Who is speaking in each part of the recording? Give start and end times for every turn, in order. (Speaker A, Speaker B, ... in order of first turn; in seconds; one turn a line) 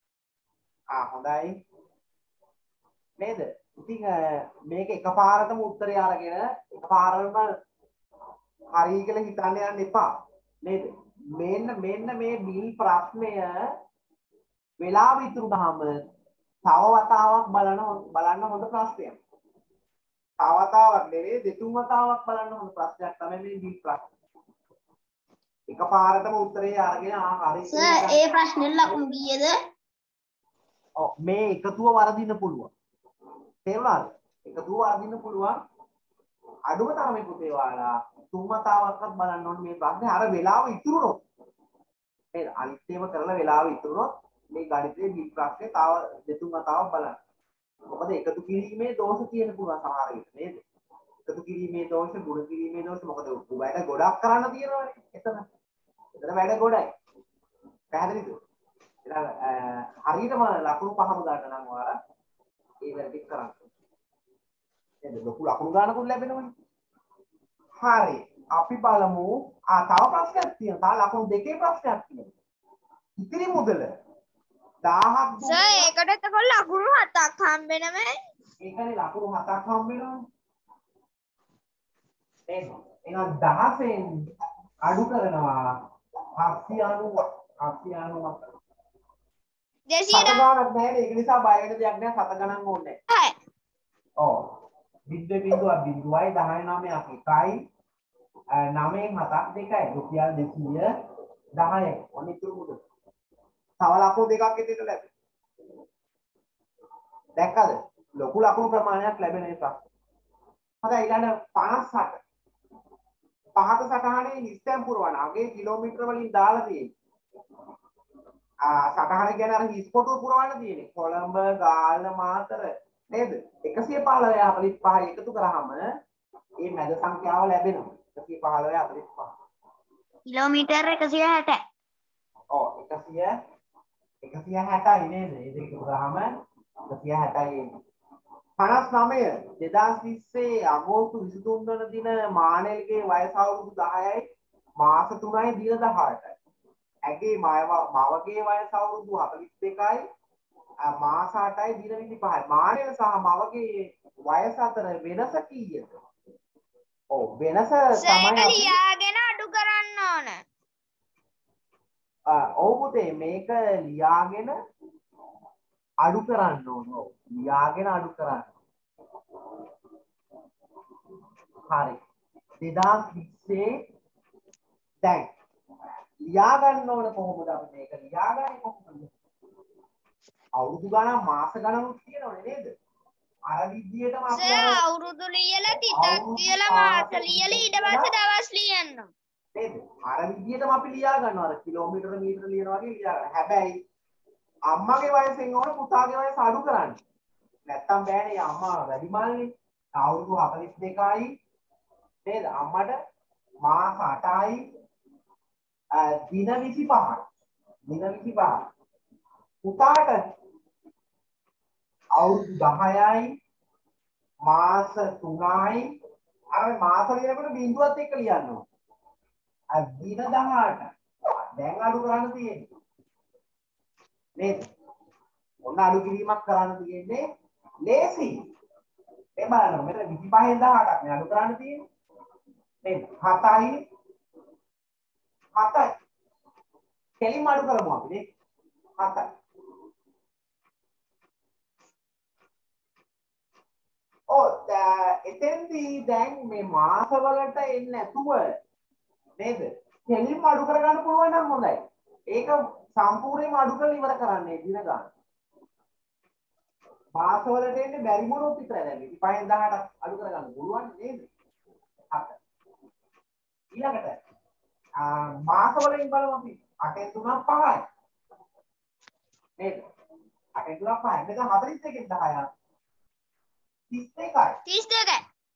Speaker A: 0.9-1.5
Speaker A: 3.2-7.5
Speaker A: 8.7-10.1
Speaker A: 10.6-13.5
Speaker A: 14.8-16.0
Speaker A: 16.7-19.2
Speaker A: 20.4-24.0
Speaker A: 25.7-28.2
Speaker B: 27.7-29.5
Speaker A: 31.0-32.7
Speaker A: 33.6-35.6
Speaker A: 36.7-41.2
Speaker A: 42.3-47.2
Speaker A: 47.9-50.6
Speaker A: 51.3-55.4
Speaker A: 56.2-56.9
Speaker A: 57.9-58.4
Speaker A: 59.1-61.9
Speaker A: 62.8-63.7
Speaker A: 65.0-66.5
Speaker A: 67.8-72.3
Speaker A: 73.2-73.9
Speaker A: 74.8-75.9
Speaker C: 75.4-78.2
Speaker A: 78.6-80.2
Speaker A: 82.5-84.1
Speaker A: 84.8-85.8
Speaker A: 86.4-88.4
Speaker C: 89.9-90.4
Speaker A: 90.1-93.0
Speaker A: 94.2-94.4
Speaker A: 95.1-97.6
Speaker A: 98.5-100.9
Speaker A: 101.5-102.8
Speaker A: 103.8-105.1
Speaker A: 107.4-109.8
Speaker A: 110.8-112.2
Speaker A: 113.6-116.9
Speaker A: 118.6-125.8
Speaker A: 126.6-129.3
Speaker B: 130.3-131.6
Speaker A: 132.5-133.3
Speaker A: 134.2-136.3
Speaker A: 136.9-137.7
Speaker A: 138.6-144.2
Speaker A: 144.8-146.4
Speaker A: 147.1-150.0
Speaker A: 150.9-156.0
Speaker A: 157.1-158.8
Speaker C: 157.9-160.4
Speaker A: 162.3-164.5
Speaker A: 166.0-168.5
Speaker A: 171.7-172.0
Speaker A: 172.6-173.7
Speaker A: 175.0-175.3
Speaker A: 176.2-179.1
Speaker A: 180.6-182.7
Speaker A: 183.5-184.8
Speaker C: 184.3-189.1
Speaker A: 185.9-188.1
Speaker A: 189.6-193.8
Speaker A: 194.7-197.0
Speaker A: 197.7-201.3
Speaker A: 202.2-202.9
Speaker A: 203.6-204.6
Speaker A: 205.9-207.2
Speaker A: 207.9-208.6
Speaker A: 209.6-210.2
Speaker A: 212.2-213.3
Speaker A: 214.4-215.9
Speaker A: 216.5-218.6
Speaker A: 219.7-220.9
Speaker A: 221.6-222.6
Speaker A: 224.4-224.6
Speaker A: 225.7-227.2
Speaker A: 227.9-228.3
Speaker A: 229.4-231.8
Speaker A: 232.8-233.8
Speaker A: 235.6-235.9
Speaker A: 237.2-238.2
Speaker A: 239.0-239.3
Speaker A: 244.3-248.5
Speaker A: 249.4-251.8
Speaker A: 252.3-255.1
Speaker A: 257.1-261.3
Speaker A: 262.1-262.4
Speaker A: 263.7-264.2
Speaker A: 265.0-267.8
Speaker A: 269.6-269.8
Speaker A: 270.6-272.5
Speaker A: 273.9-274.6
Speaker C: 274.7-275.2